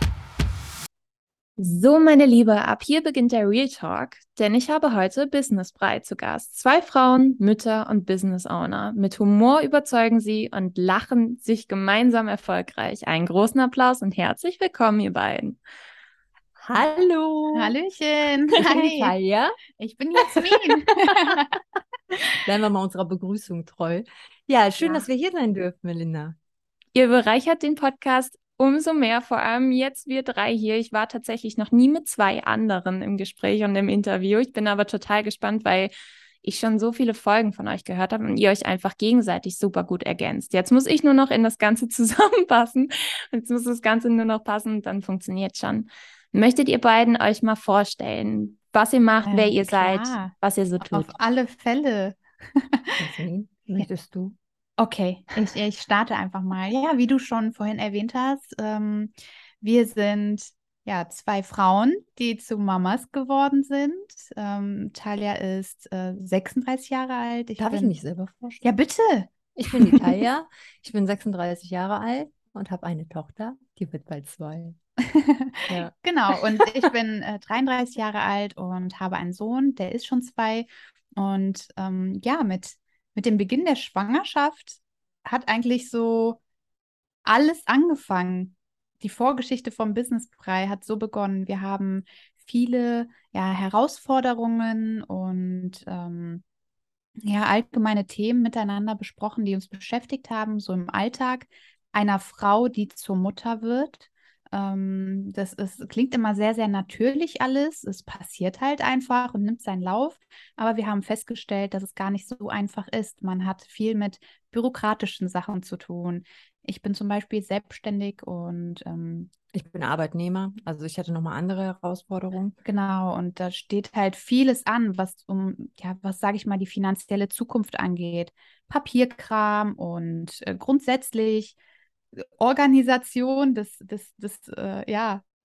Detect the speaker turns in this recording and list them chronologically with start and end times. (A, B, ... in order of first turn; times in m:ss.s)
0:01.6-0:15.6 A
0:16.6-0:17.7 B
0:17.5-0:19.1 C
0:18.6-0:19.6 B
0:19.8-0:21.5 C
0:20.2-0:20.5 B
0:21.1-0:21.4 B
0:22.4-0:26.4 B
0:26.9-0:35.9 A
0:36.4-0:51.1 A
0:49.2-0:53.0 C
0:53.0-0:54.4 B
0:54.8-1:07.9 C
1:07.6-1:08.6 B
1:08.6-1:10.1 C
1:09.6-1:14.8 B
1:15.0-1:26.4 C
1:15.7-1:16.7 B
1:27.2-1:36.4 C
1:37.2-1:59.3 C
1:59.5-2:02.6 B
2:02.6-2:11.6 C
2:12.1-2:15.2 C